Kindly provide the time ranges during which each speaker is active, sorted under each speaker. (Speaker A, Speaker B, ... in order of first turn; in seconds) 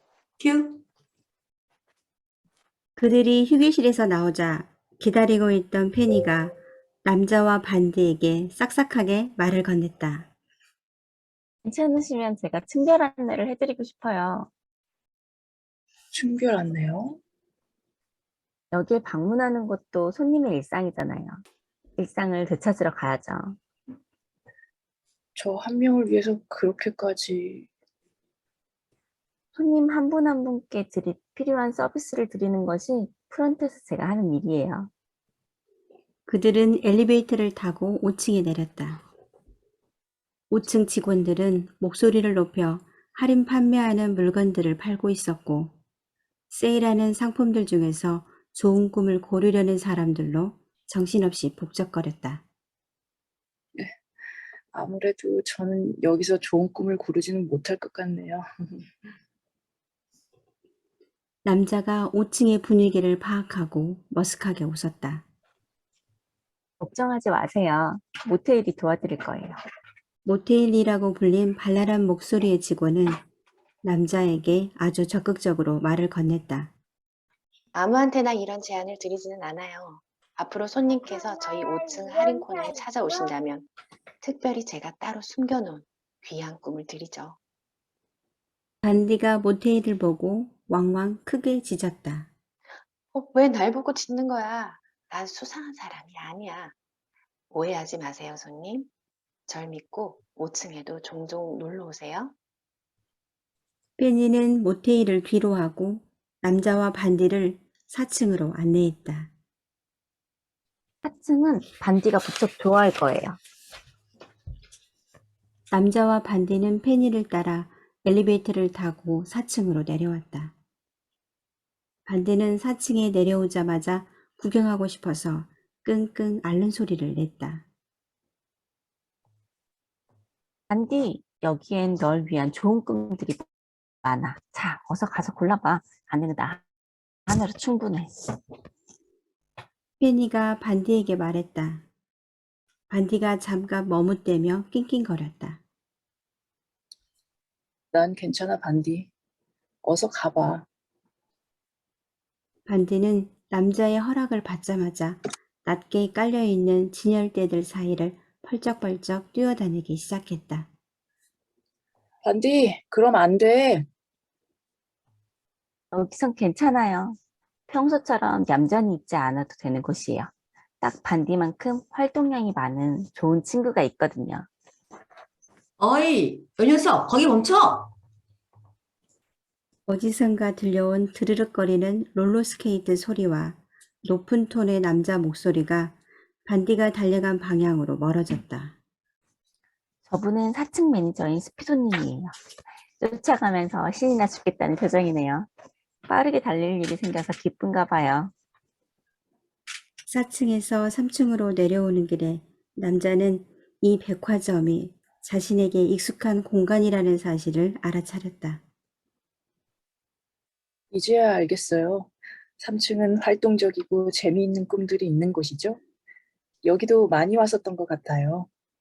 Speaker A: 0.4-0.8, 175.8-177.9
Speaker B: 3.0-10.3, 36.3-39.0, 40.5-45.8, 46.5-52.4, 61.4-65.2, 70.2-73.2, 73.8-76.7, 88.8-92.3, 104.0-109.3, 115.7-120.5, 122.1-127.7, 140.0-141.8, 142.9-145.6, 152.7-160.7, 179.9-188.8, 200.1-208.6
Speaker C: 11.6-14.5, 18.7-21.4, 22.0-23.6, 29.6-34.9, 66.8-69.6, 111.0-113.4, 130.7-133.4, 134.0-136.6, 137.3-138.1, 165.9-174.5, 190.1-192.3, 193.0-195.5, 196.1-198.3
Speaker D: 16.1-17.2, 25.4-27.7, 54.7-59.1, 147.9-149.1, 149.8-150.7, 162.2-163.8, 210.9-215.8, 216.6-218.5
Speaker E: 77.7-83.7, 84.2-87.4, 93.1-96.7, 97.5-98.9, 99.5-102.3